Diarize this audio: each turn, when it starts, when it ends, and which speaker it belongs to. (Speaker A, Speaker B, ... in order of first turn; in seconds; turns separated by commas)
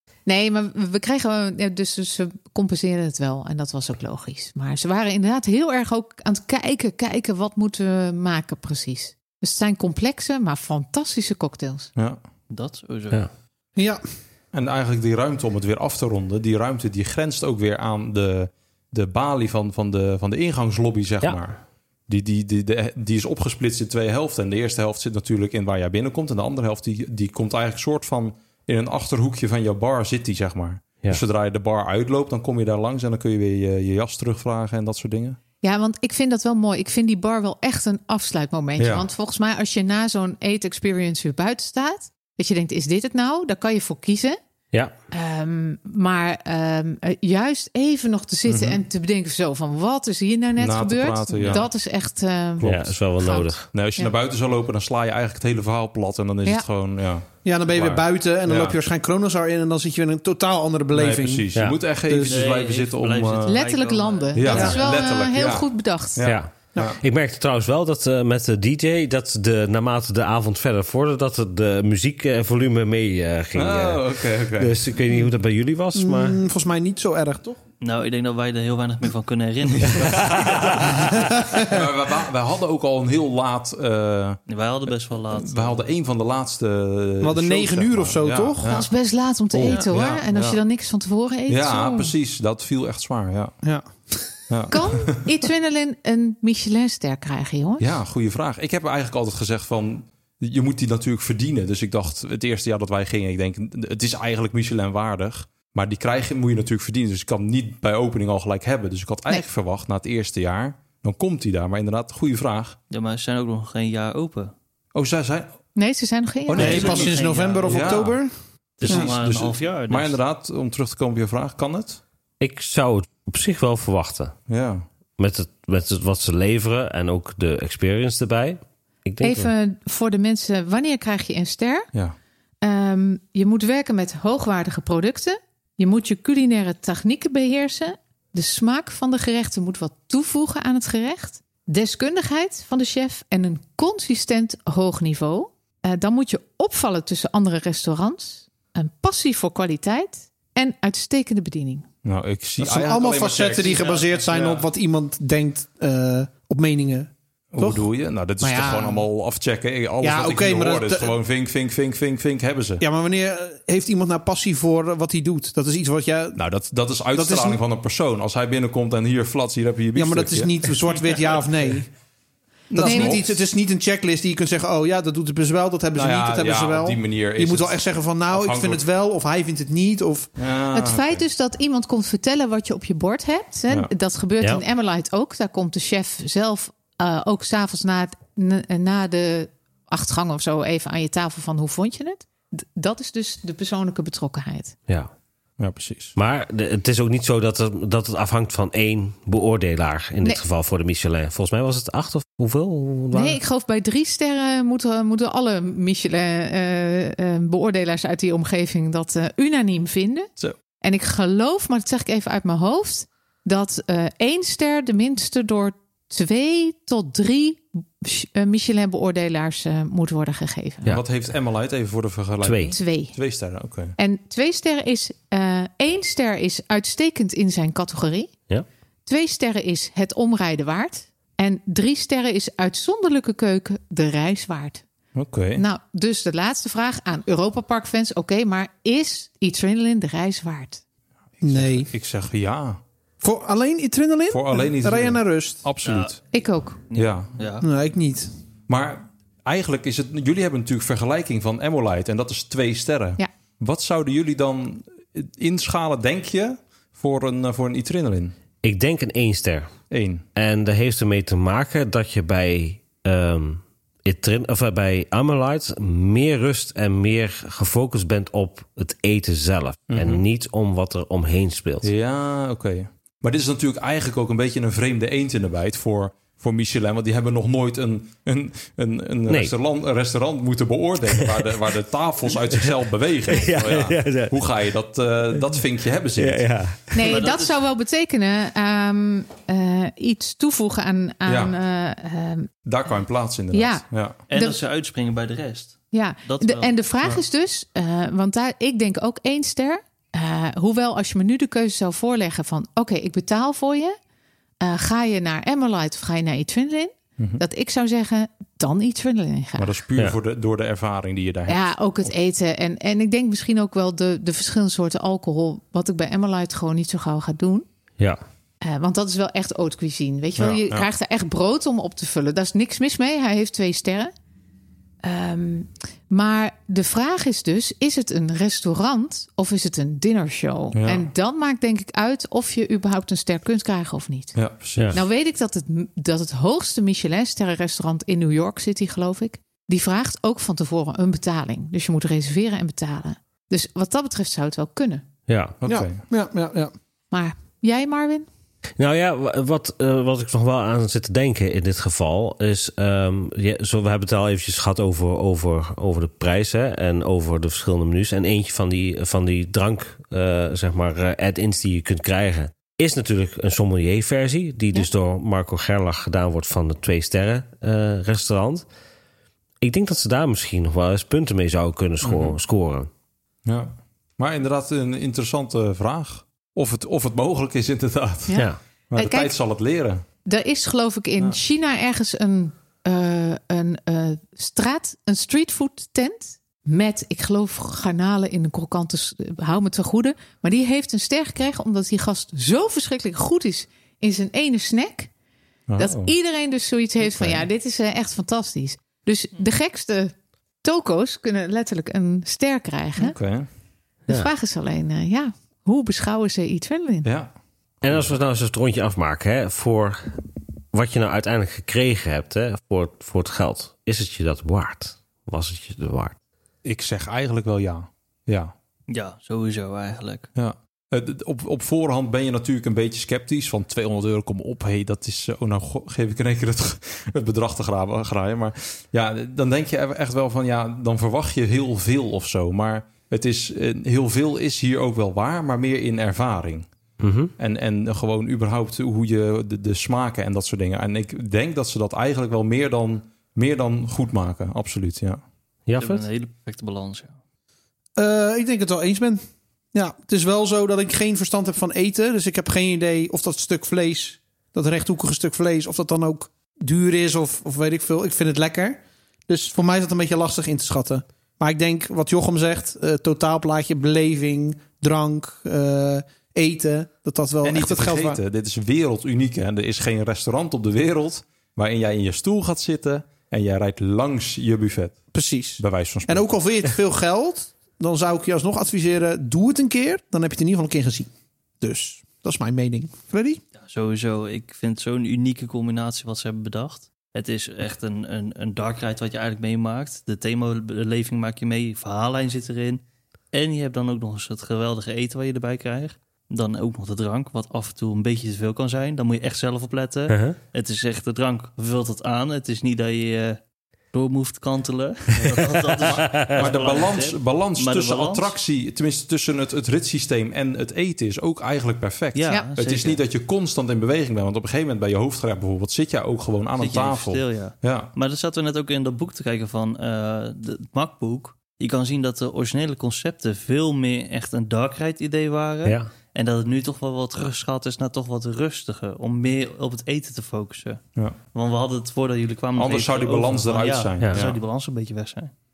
Speaker A: 0.2-11.9, Speaker B: 12.5-13.2, Speaker C: 13.8-14.0, Speaker D: 14.5-35.4, Speaker A: 35.6-44.4, Speaker D: 38.8-39.1, Speaker A: 45.1-54.1, Speaker D: 48.5-48.8, Speaker D: 50.6-51.7, Speaker B: 51.4-51.6, Speaker D: 52.6-53.0, Speaker E: 52.6-53.7, Speaker D: 53.7-58.8, Speaker C: 57.4-61.5, Speaker D: 60.9-63.6, Speaker C: 62.0-62.5, Speaker B: 62.2-64.9, Speaker A: 63.4-66.2, Speaker D: 64.3-67.0, Speaker C: 64.5-64.8, Speaker E: 66.2-76.4, Speaker D: 73.5-74.8, Speaker C: 75.9-77.6, Speaker B: 77.8-81.2, Speaker D: 79.8-84.4, Speaker E: 80.3-80.7, Speaker C: 81.1-81.8, Speaker B: 84.5-85.9, Speaker D: 85.3-88.9, Speaker C: 87.2-88.8, Speaker A: 88.6-92.1, Speaker D: 89.5-90.6, Speaker D: 91.5-93.5, Speaker C: 93.6-94.4, Speaker D: 94.5-95.2, Speaker A: 94.7-98.0, Speaker D: 97.8-112.8, Speaker B: 112.9-114.5, Speaker D: 114.9-115.5, Speaker A: 115.7-117.0, Speaker D: 116.5-118.2, Speaker B: 116.5-118.0, Speaker C: 116.5-118.3, Speaker B: 118.8-120.2, Speaker D: 118.8-122.0, Speaker E: 122.4-124.3, Speaker D: 124.5-124.8, Speaker E: 125.2-129.5, Speaker A: 129.2-131.9, Speaker A: 132.6-151.9, Speaker D: 152.0-154.6, Speaker C: 152.6-157.9, Speaker B: 153.6-154.2, Speaker D: 157.5-162.8, Speaker C: 158.4-159.0, Speaker C: 160.0-161.1, Speaker C: 162.8-166.4, Speaker D: 166.3-170.7, Speaker C: 167.1-167.6, Speaker C: 169.9-171.9, Speaker D: 172.7-173.4, Speaker C: 172.7-180.3, Speaker A: 172.8-173.2, Speaker D: 175.9-178.8, Speaker D: 180.3-181.2, Speaker A: 180.7-194.8, Speaker D: 195.6-196.1, Speaker E: 196.2-203.4, Speaker A: 203.1-221.0, Speaker D: 220.9-223.9, Speaker E: 222.4-222.8, Speaker A: 222.7-223.2, Speaker A: 224.0-228.3, Speaker A: 229.1-234.8, Speaker D: 235.1-235.6, Speaker A: 235.5-240.8, Speaker D: 241.4-242.8, Speaker C: 241.4-241.9, Speaker C: 243.2-245.6, Speaker D: 244.3-246.2, Speaker B: 245.8-246.3, Speaker A: 246.3-246.8, Speaker B: 246.9-247.6, Speaker D: 246.9-247.3, Speaker C: 247.6-248.3, Speaker D: 248.7-258.3, Speaker E: 258.6-259.7, Speaker D: 259.9-260.3, Speaker E: 260.3-271.9, Speaker D: 269.9-270.2, Speaker D: 271.8-286.5, Speaker E: 279.3-279.5, Speaker E: 283.3-284.4, Speaker E: 286.1-287.2, Speaker A: 286.9-292.5, Speaker B: 287.0-287.6, Speaker D: 291.2-291.6, Speaker D: 292.6-294.2, Speaker A: 293.5-294.6, Speaker B: 294.3-296.7, Speaker A: 295.9-303.9, Speaker A: 304.6-309.8, Speaker D: 307.2-307.4, Speaker D: 309.6-312.1, Speaker A: 311.5-317.6, Speaker A: 318.6-324.1, Speaker D: 320.4-320.9, Speaker A: 325.0-334.4, Speaker D: 330.7-331.1, Speaker D: 334.3-335.0, Speaker A: 334.9-345.0, Speaker E: 345.3-345.6, Speaker D: 345.6-346.0, Speaker C: 345.6-346.7, Speaker A: 347.1-348.3, Speaker E: 348.8-368.6, Speaker E: 369.6-372.9, Speaker D: 372.0-372.4, Speaker D: 373.4-380.0, Speaker A: 378.3-379.3, Speaker A: 380.2-395.1, Speaker D: 395.7-396.1, Speaker A: 395.8-400.1, Speaker A: 400.6-403.2, Speaker D: 403.0-403.5, Speaker A: 404.1-407.1, Speaker D: 407.0-407.3, Speaker E: 407.8-410.1, Speaker E: 410.7-416.1, Speaker D: 416.6-418.5, Speaker B: 418.9-420.3, Speaker D: 420.3-436.7, Speaker E: 437.0-437.3, Speaker D: 437.4-445.2, Speaker E: 445.7-446.1, Speaker B: 445.8-447.1, Speaker C: 448.0-449.2, Speaker C: 449.7-468.2, Speaker D: 467.4-475.1, Speaker C: 475.1-483.4, Speaker D: 475.6-476.3, Speaker B: 483.6-503.4, Speaker E: 500.1-500.4, Speaker B: 503.9-508.3, Speaker D: 505.8-517.9, Speaker E: 506.0-506.5, Speaker B: 512.1-513.0, Speaker B: 516.6-535.3, Speaker D: 532.5-534.4